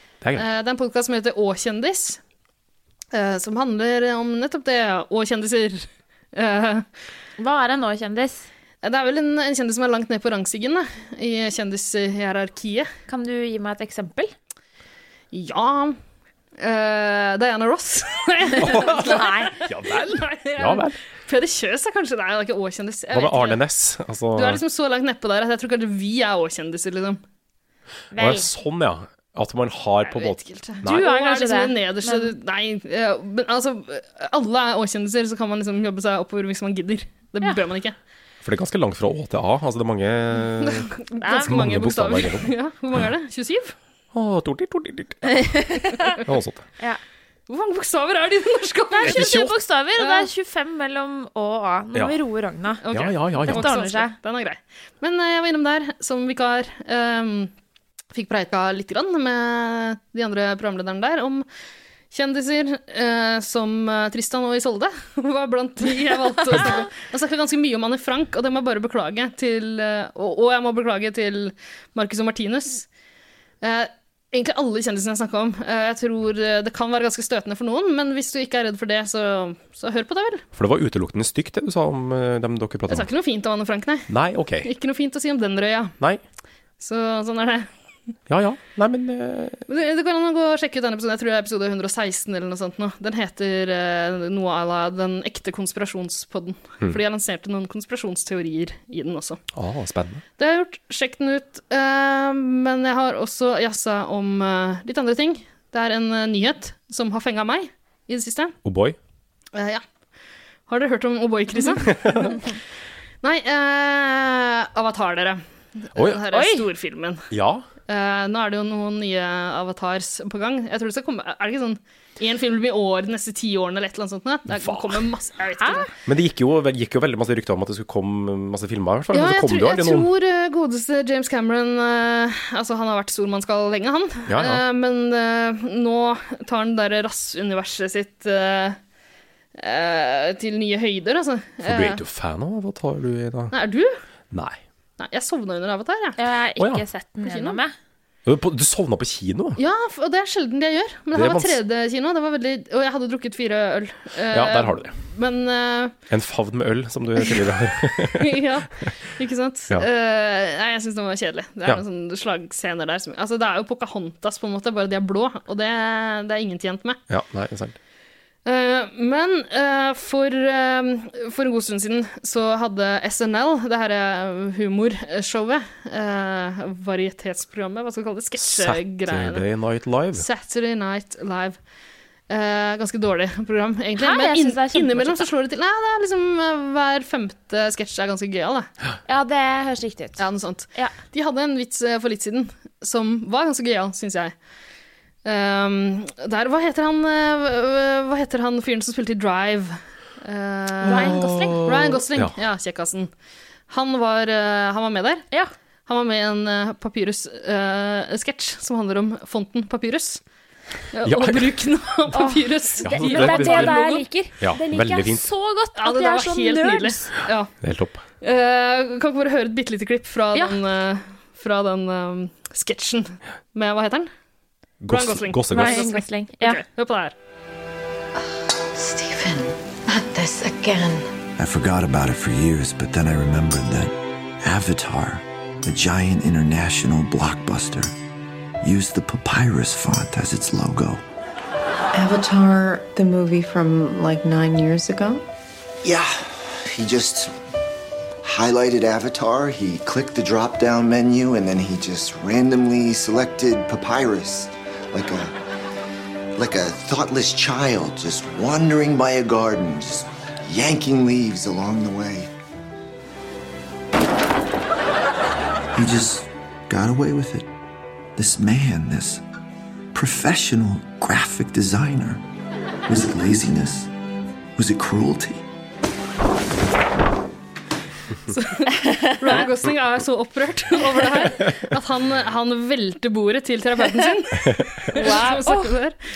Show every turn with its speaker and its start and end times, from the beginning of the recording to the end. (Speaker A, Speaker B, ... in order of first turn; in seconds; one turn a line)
Speaker A: 0.3-2.2
Speaker A: 3.1-6.9
Speaker B: 7.4-8.5
Speaker A: 8.8-12.9
Speaker B: 13.1-14.3
Speaker A: 15.3-16.0
Speaker A: 16.6-23.6
Speaker C: 18.6-21.0
Speaker B: 18.9-19.5
Speaker C: 23.1-24.6
Speaker A: 24.3-27.2
Speaker B: 28.1-28.4
Speaker C: 28.1-31.1
Speaker A: 30.0-38.0
Speaker B: 30.8-32.3
Speaker C: 38.4-43.0
Speaker A: 40.6-43.7
Speaker B: 41.2-41.5
Speaker C: 44.1-45.5
Speaker B: 45.3-46.1
Speaker C: 46.2-46.6
Speaker A: 47.5-49.4
Speaker B: 48.9-54.1
Speaker C: 49.0-49.5
Speaker A: 50.0-50.3
Speaker A: 52.8-57.5
Speaker C: 52.9-53.7
Speaker A: 58.1-61.5
Speaker A: 62.1-72.9
Speaker A: 73.6-80.4
Speaker C: 80.5-83.1
Speaker A: 82.9-84.1
Speaker C: 84.1-84.7
Speaker A: 84.6-86.0
Speaker A: 86.8-87.7
Speaker C: 88.3-89.6
Speaker A: 89.7-99.4
Speaker C: 99.5-100.2
Speaker A: 100.4-108.5
Speaker C: 108.6-109.0
Speaker A: 109.5-109.8
Speaker A: 110.7-112.3
Speaker C: 111.9-112.3
Speaker A: 113.2-117.3
Speaker C: 115.9-116.2
Speaker B: 116.3-116.6
Speaker C: 117.3-117.7
Speaker A: 117.9-125.9
Speaker C: 124.5-125.0
Speaker C: 126.0-130.1
Speaker A: 129.1-138.8
Speaker C: 134.3-134.6
Speaker A: 139.6-142.0
Speaker C: 141.6-143.5
Speaker A: 143.5-144.0
Speaker C: 144.3-144.6
Speaker A: 145.0-146.2
Speaker B: 146.2-147.7
Speaker C: 146.6-146.8
Speaker A: 147.2-147.6
Speaker C: 148.2-149.6
Speaker A: 149.6-155.9
Speaker C: 151.1-151.6
Speaker C: 154.3-154.9
Speaker C: 156.1-158.4
Speaker A: 158.1-167.0
Speaker C: 167.1-167.8
Speaker A: 168.4-179.5
Speaker C: 178.4-180.2
Speaker A: 180.1-181.6
Speaker A: 182.3-188.7
Speaker B: 184.0-185.3
Speaker B: 189.1-190.9
Speaker A: 190.2-194.3
Speaker A: 195.2-203.1
Speaker C: 200.8-202.3
Speaker B: 200.8-201.6
Speaker A: 203.7-205.2
Speaker A: 205.9-210.2
Speaker A: 210.9-214.0
Speaker C: 211.0-211.5
Speaker B: 212.1-217.1
Speaker C: 212.8-213.8
Speaker C: 214.4-215.3
Speaker A: 215.8-217.5
Speaker C: 217.6-218.0
Speaker A: 218.2-224.1
Speaker C: 224.8-225.8
Speaker A: 224.9-227.1
Speaker B: 225.5-226.6
Speaker D: 228.7-231.1
Speaker E: 231.4-237.9
Speaker E: 238.6-241.0
Speaker D: 241.9-245.2
Speaker E: 245.8-247.3
Speaker E: 248.2-255.3
Speaker E: 256.4-262.3
Speaker E: 265.7-267.5
Speaker E: 268.1-269.2
Speaker E: 269.9-272.2
Speaker E: 272.9-273.9
Speaker E: 274.6-275.4
Speaker A: 278.3-285.9
Speaker C: 284.4-284.9
Speaker B: 284.9-285.8